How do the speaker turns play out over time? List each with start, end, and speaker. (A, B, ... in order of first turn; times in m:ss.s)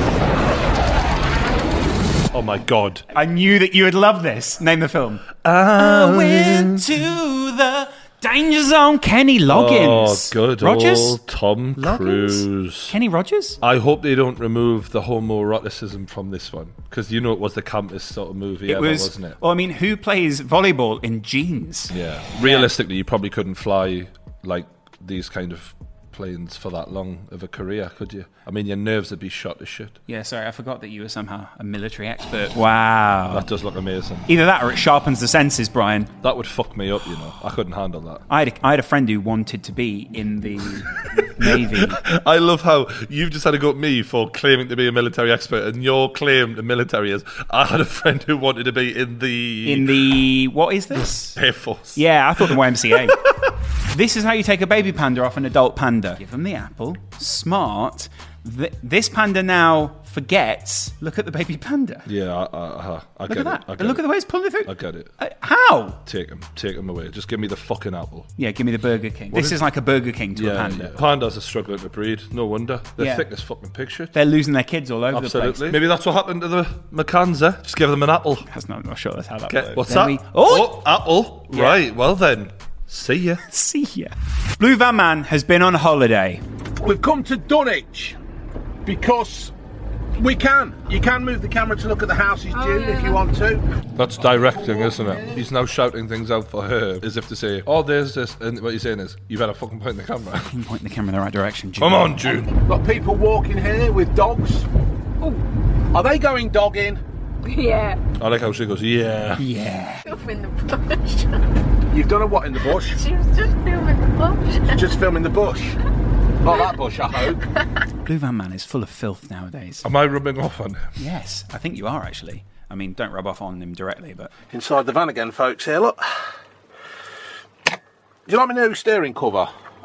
0:02.3-0:03.0 A
0:03.1-0:11.2 B
0:05.4-0:06.8 A
0:09.5-0:12.9 A
0:11.8-0:13.6 B
0:13.6-0:19.4 A
0:18.7-0:22.7 B
0:21.9-0:30.0 A
0:30.1-0:33.5 B
0:33.3-0:34.3 A
0:34.3-0:36.1 B
0:36.2-0:38.2 A
0:38.3-0:42.0 B
0:41.1-0:50.2 A
0:49.6-0:51.4 B
0:51.4-0:53.5 A
0:52.0-0:53.3 B
0:53.9-1:02.0 B
1:02.0-1:04.0 A
1:03.3-1:06.0 B
1:04.6-1:05.1 A
1:06.0-1:08.3 A
1:08.4-1:11.0 B
1:09.3-1:09.6 A
1:10.3-1:14.1 A
1:13.0-1:13.2 B
1:14.1-1:15.8 B
1:15.1-1:18.5 A
1:18.5-1:20.8 B
1:19.5-1:23.4 A
1:21.5-1:21.8 B
1:23.5-1:26.4 B
1:26.8-1:28.2 C
1:28.8-1:29.5 C
1:30.2-1:33.6 C
1:32.5-1:33.2 D
1:34.0-1:40.5 A
1:34.2-1:35.4 C
1:40.4-1:42.3 B
1:41.8-1:42.5 A
1:42.6-1:44.6 C
1:45.9-1:47.0 C
1:47.4-1:48.0 D
1:48.2-1:49.4 A
1:49.4-1:50.0 B
1:50.0-1:51.4 D
1:51.9-1:53.0 C
1:52.6-1:54.8 D
1:54.7-1:55.7 C
1:56.4-1:57.4 C
1:56.5-1:56.7 D
1:58.0-1:59.8 B
1:59.8-2:01.0 A
2:01.0-2:04.3 B
2:04.5-2:06.0 C
2:08.3-2:09.5 C